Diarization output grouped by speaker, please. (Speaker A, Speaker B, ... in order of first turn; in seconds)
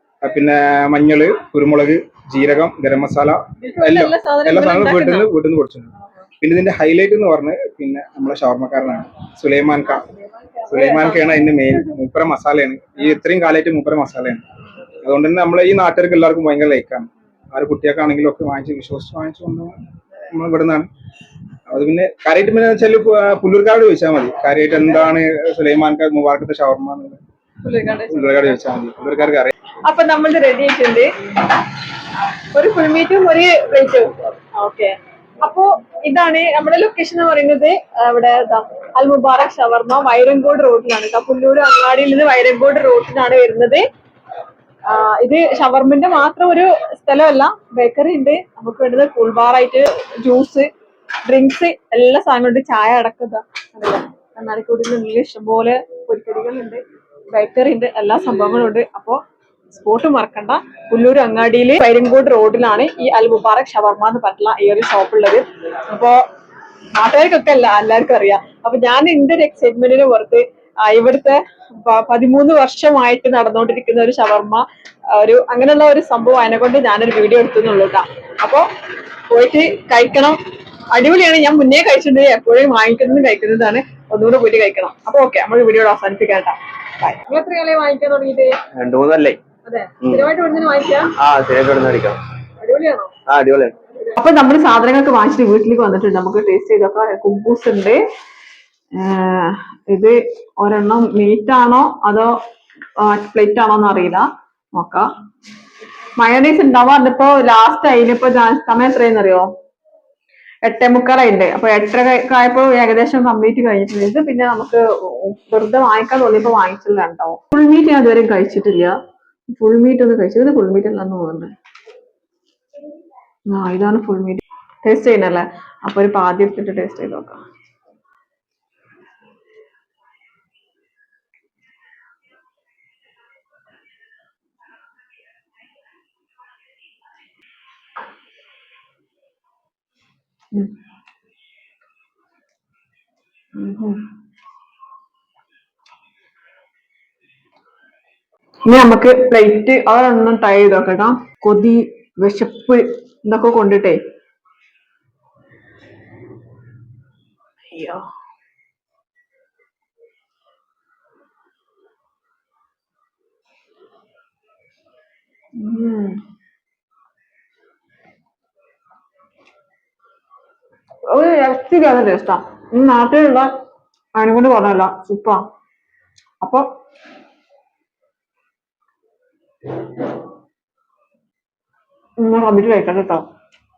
Speaker A: 0.2-5.9, 6.4-10.1, 10.7-14.4, 15.0-19.8, 20.3-20.9, 21.7-27.2, 28.1-29.5
Speaker B: 3.6-5.3, 10.6-11.8, 27.6-28.6, 29.8-31.1, 32.5-43.8, 44.9-50.7, 51.2-66.2, 66.9-78.7, 79.3-80.4, 80.9-88.5, 89.6-91.1, 92.6-93.1, 94.0-98.0, 99.0-102.3, 103.0-105.1, 106.2-109.5, 110.6-118.9, 119.5-121.5, 123.5-127.4, 143.5-144.0, 148.7-154.0, 157.7-158.1, 165.6-166.2, 171.1-173.5, 174.2-175.4, 176.4-176.7, 182.2-183.2
Speaker C: 88.8-89.4, 91.2-92.2, 93.3-93.7